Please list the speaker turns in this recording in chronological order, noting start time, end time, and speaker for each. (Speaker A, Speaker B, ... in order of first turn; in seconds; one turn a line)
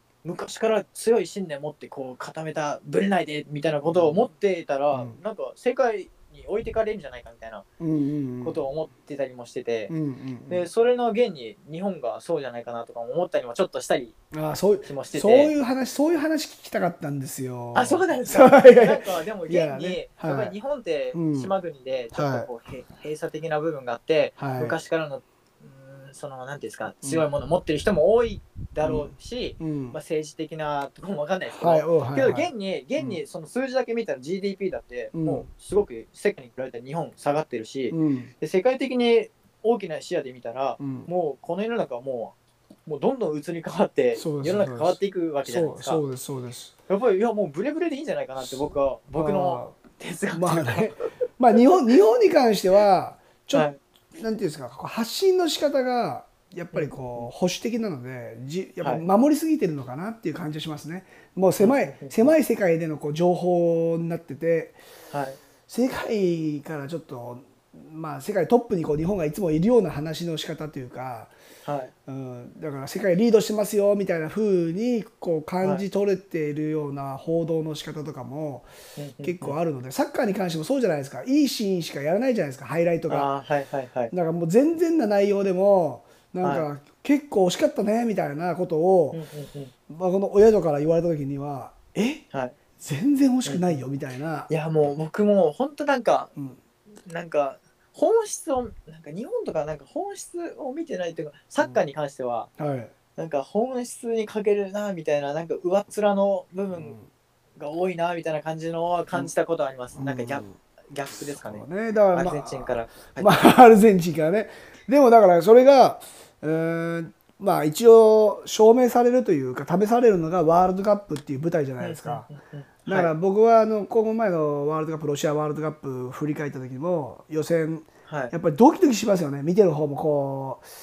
Speaker A: 0.2-7.7
Speaker B: 3.9-4.3
Speaker B: 7.8-8.6
Speaker A: 8.4-9.9
Speaker B: 9.9-10.7
Speaker A: 10.5-14.2
Speaker B: 14.3-20.5
Speaker A: 14.8-15.5
Speaker A: 17.7-46.0
Speaker B: 21.1-21.5
Speaker B: 22.1-22.5
Speaker B: 24.4-24.8
Speaker B: 28.8-30.0
Speaker B: 31.6-33.2
Speaker B: 35.1-35.5
Speaker B: 37.9-38.3
Speaker B: 40.8-41.1
Speaker B: 44.2-46.8
Speaker A: 46.9-51.8
Speaker B: 49.1-49.8
Speaker B: 50.3-64.8
Speaker A: 53.5-53.8
Speaker A: 56.7-57.3
Speaker A: 61.6-62.3
Speaker A: 65.1-65.4
Speaker B: 65.7-71.3
Speaker A: 71.7-71.9
Speaker B: 72.1-78.7
Speaker A: 79.0-79.6
Speaker B: 79.2-83.3
Speaker A: 83.1-84.1
Speaker B: 84.1-89.2
Speaker A: 89.1-89.7
Speaker B: 89.9-92.2
Speaker B: 92.8-94.5
Speaker A: 93.5-93.8
Speaker A: 94.5-96.3
Speaker A: 97.0-102.5
Speaker B: 102.6-102.9
Speaker A: 103.2-107.0
Speaker B: 106.7-107.1
Speaker A: 107.6-113.3
Speaker B: 110.0-110.5
Speaker B: 111.2-122.3
Speaker A: 121.8-123.1
Speaker B: 122.9-130.7
Speaker A: 128.1-128.3